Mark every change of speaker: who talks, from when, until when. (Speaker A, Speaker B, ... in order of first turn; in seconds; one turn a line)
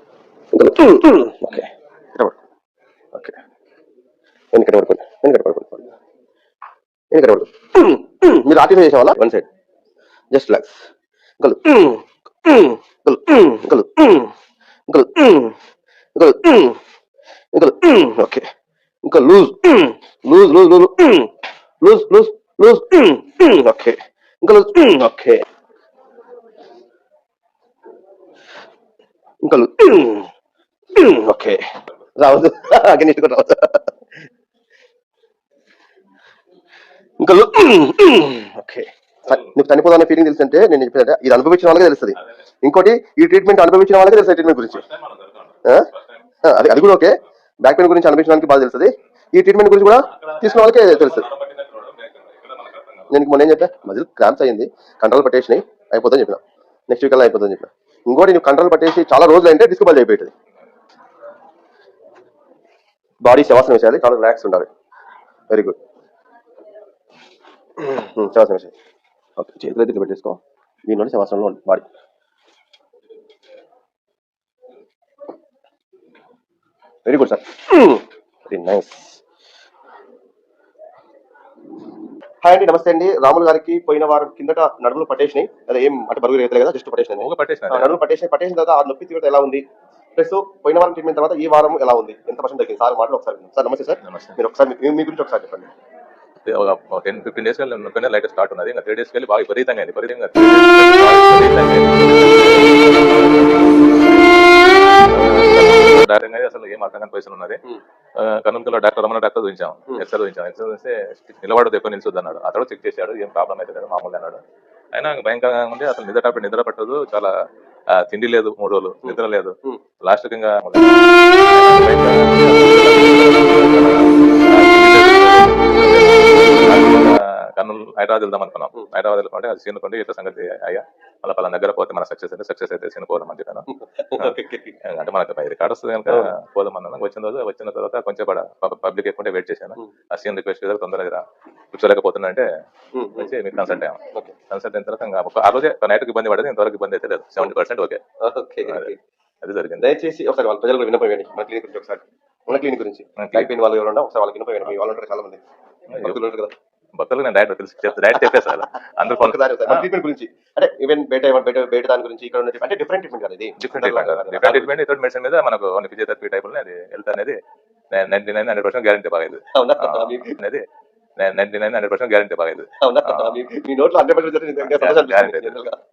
Speaker A: 0.5-2.4
Speaker A: 4.5-5.9
Speaker A: 7.1-9.5
Speaker A: 10.3-10.8
Speaker A: 11.4-14.3
Speaker A: 14.9-15.6
Speaker A: 16.1-16.8
Speaker A: 17.5-18.5
Speaker A: 19.0-25.4
Speaker A: 29.4-30.3
Speaker A: 30.9-31.6
Speaker A: 32.2-33.9
Speaker A: 37.2-44.9
Speaker B: 44.7-46.2
Speaker A: 45.6-45.9
Speaker A: 46.4-51.3
Speaker B: 50.1-53.1
Speaker A: 53.1-60.3
Speaker A: 63.2-64.7
Speaker A: 65.5-65.8
Speaker A: 67.8-68.7
Speaker A: 69.4-71.9
Speaker A: 77.1-79.2
Speaker A: 82.4-89.6
Speaker B: 87.1-88.0
Speaker A: 90.2-95.7
Speaker B: 94.0-94.4
Speaker B: 96.5-104.4
Speaker B: 105.1-107.6
Speaker B: 108.2-114.4
Speaker B: 114.9-117.3
Speaker B: 117.9-133.7
Speaker A: 119.1-119.8
Speaker A: 133.7-134.8
Speaker B: 134.2-142.5
Speaker A: 142.9-143.3
Speaker B: 143.2-148.0
Speaker A: 148.2-149.0
Speaker B: 149.4-149.9
Speaker A: 149.8-156.5
Speaker B: 153.2-153.5
Speaker B: 155.9-156.2
Speaker B: 156.9-159.9
Speaker A: 159.1-164.7
Speaker B: 163.6-167.4
Speaker B: 167.9-170.7
Speaker A: 169.5-170.4
Speaker B: 171.2-173.5
Speaker A: 172.8-175.8
Speaker B: 174.6-175.6